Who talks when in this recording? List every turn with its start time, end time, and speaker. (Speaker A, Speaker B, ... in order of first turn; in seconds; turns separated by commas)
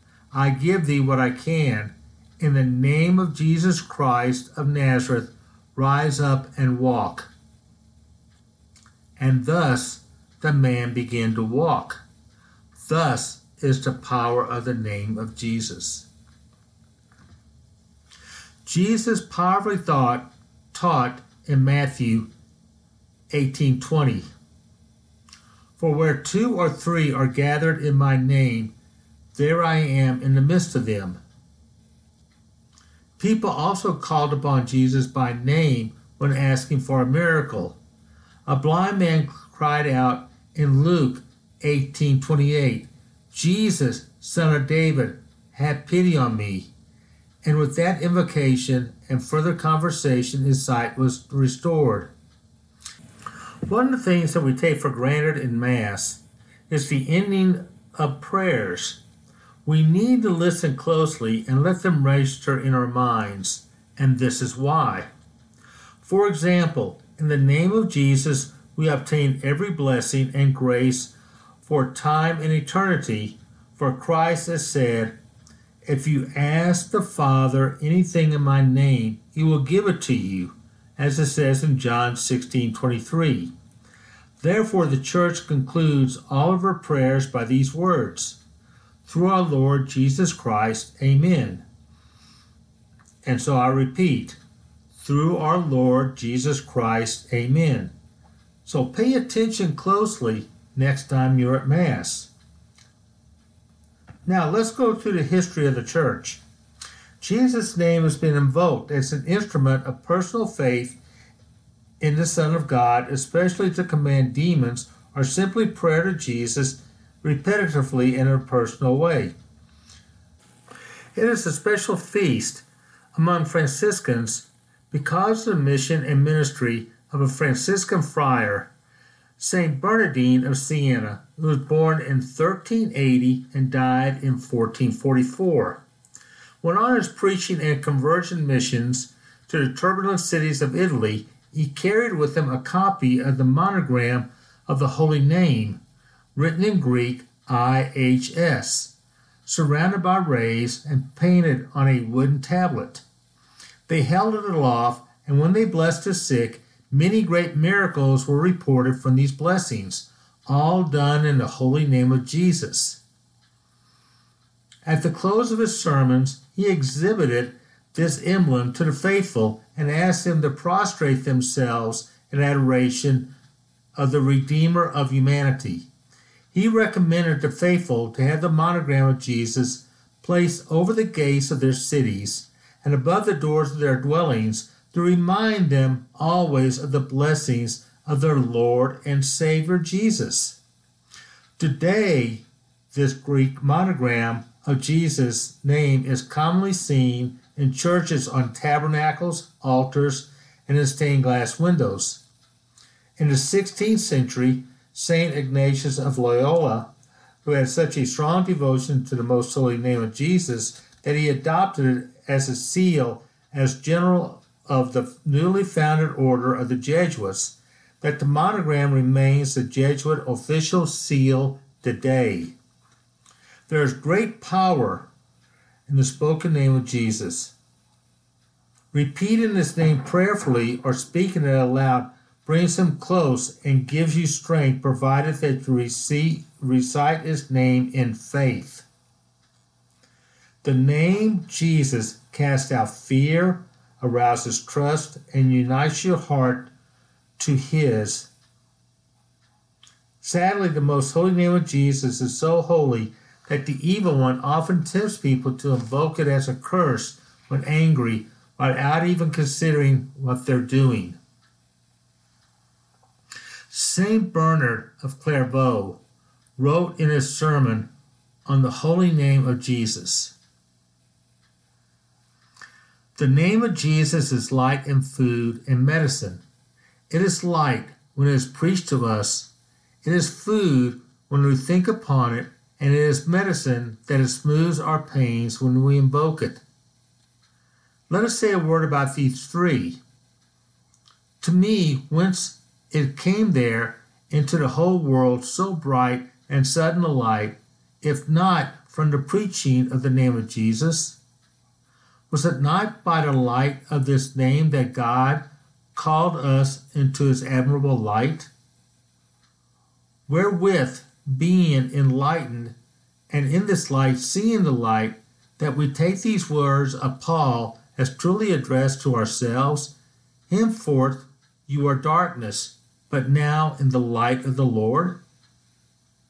Speaker A: 0.3-7.3, Speaker A: 9.2-12.0, Speaker A: 12.8-16.1, Speaker A: 18.6-22.3, Speaker A: 23.3-24.3, Speaker A: 25.8-28.7, Speaker A: 29.3-31.2, Speaker A: 33.2-37.8, Speaker A: 38.5-46.7, Speaker A: 47.4-52.1, Speaker A: 53.6-59.0, Speaker A: 59.6-65.1, Speaker A: 66.0-75.2, Speaker A: 75.9-83.5, Speaker A: 84.4-88.4, Speaker A: 89.0-91.6, Speaker A: 93.2-94.4, Speaker A: 95.0-97.9, Speaker A: 98.6-102.3, Speaker A: 104.2-106.4, Speaker A: 107.2-111.0, Speaker A: 112.0-119.3, Speaker A: 121.1-128.7, Speaker A: 129.4-135.8, Speaker A: 136.6-145.8, Speaker A: 146.3-148.9, Speaker A: 149.4-153.0, Speaker A: 153.9-163.0, Speaker A: 164.8-173.3, Speaker A: 173.9-175.9, Speaker A: 176.5-190.6, Speaker A: 191.6-202.2, Speaker A: 203.2-206.9, Speaker A: 207.4-222.5, Speaker A: 223.7-225.1, Speaker A: 225.9-227.5, Speaker A: 228.9-238.9, Speaker A: 240.6-246.7, Speaker A: 247.4-248.3, Speaker A: 250.2-261.2, Speaker A: 263.7-266.0, Speaker A: 266.6-267.9, Speaker A: 268.4-270.4, Speaker A: 273.1-276.4, Speaker A: 277.1-279.5, Speaker A: 280.0-286.6, Speaker A: 288.1-290.0, Speaker A: 291.4-301.2, Speaker A: 302.3-308.5, Speaker A: 310.3-312.8, Speaker A: 313.3-319.9, Speaker A: 320.5-325.2